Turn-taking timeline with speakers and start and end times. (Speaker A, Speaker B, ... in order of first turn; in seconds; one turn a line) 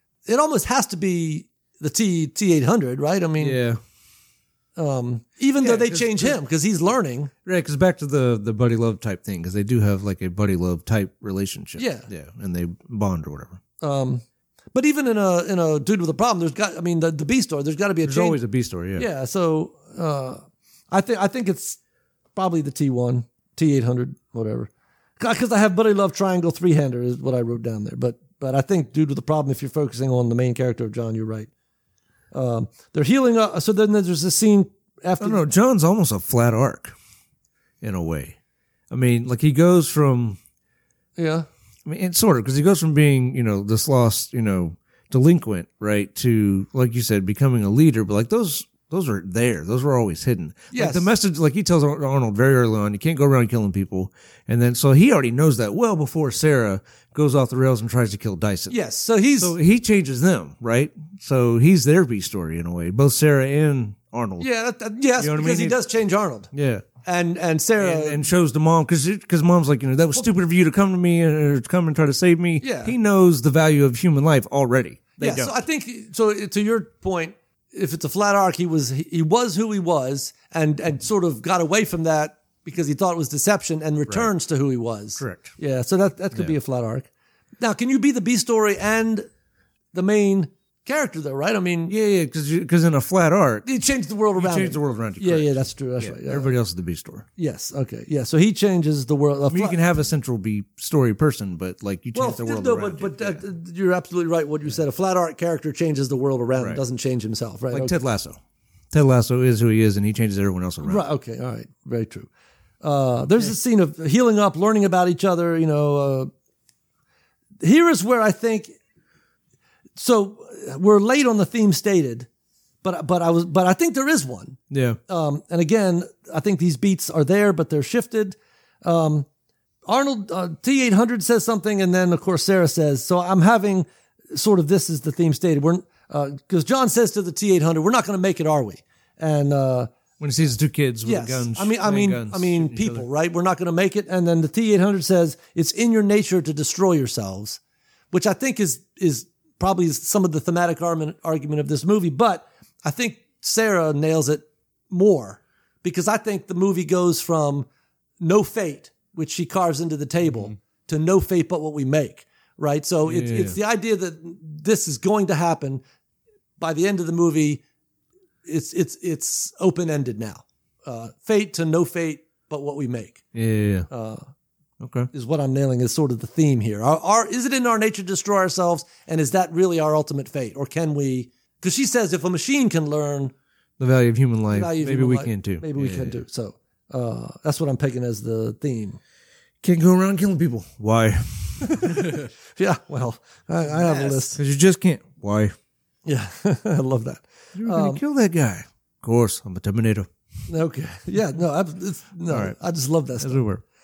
Speaker A: 0.3-3.6
Speaker B: 3.4-3.8
Speaker A: 4.8-7.3
Speaker B: 5.6-6.4
Speaker B: 7.5-13.6
Speaker A: 11.8-12.1
Speaker A: 13.8-14.2
Speaker A: 14.7-18.4
Speaker B: 18.0-19.1
Speaker A: 19.0-21.8
Speaker A: 22.4-31.5
Speaker A: 32.3-35.4
Speaker B: 35.2-37.0
Speaker B: 37.8-38.4
Speaker B: 38.9-40.4
Speaker A: 41.2-41.5
Speaker B: 41.9-58.8
Speaker A: 50.7-51.1
Speaker A: 58.7-59.5
Speaker B: 59.4-64.5
Speaker A: 64.4-66.5
Speaker B: 65.2-65.8
Speaker B: 66.5-66.9
Speaker A: 67.0-68.2
Speaker B: 67.8-75.5
Speaker A: 72.6-72.9
Speaker A: 75.2-87.1
Speaker B: 85.2-85.5
Speaker A: 87.6-89.3
Speaker A: 89.9-91.9
Speaker B: 91.9-93.7
Speaker A: 93.7-96.5
Speaker B: 94.4-97.3
Speaker A: 97.4-99.8
Speaker B: 99.5-103.4
Speaker A: 102.1-107.9
Speaker B: 107.7-108.4
Speaker B: 108.9-111.0
Speaker A: 110.8-112.3
Speaker A: 112.8-116.3
Speaker A: 117.6-118.7
Speaker A: 120.0-122.3
Speaker A: 122.8-129.3
Speaker B: 124.7-125.0
Speaker A: 129.9-139.9
Speaker B: 140.2-143.1
Speaker A: 141.1-147.6
Speaker A: 148.1-157.7
Speaker A: 158.2-165.8
Speaker B: 163.1-163.6
Speaker A: 166.6-167.6
Speaker A: 168.4-173.2
Speaker B: 173.3-173.9
Speaker A: 173.9-174.3
Speaker B: 174.8-175.1
Speaker A: 175.1-183.3
Speaker B: 183.8-186.2
Speaker A: 184.5-189.0
Speaker B: 189.6-192.0
Speaker A: 191.6-194.4
Speaker B: 193.9-195.5
Speaker A: 196.1-198.0
Speaker B: 197.6-200.1
Speaker A: 200.5-203.4
Speaker B: 202.3-202.6
Speaker B: 203.2-203.6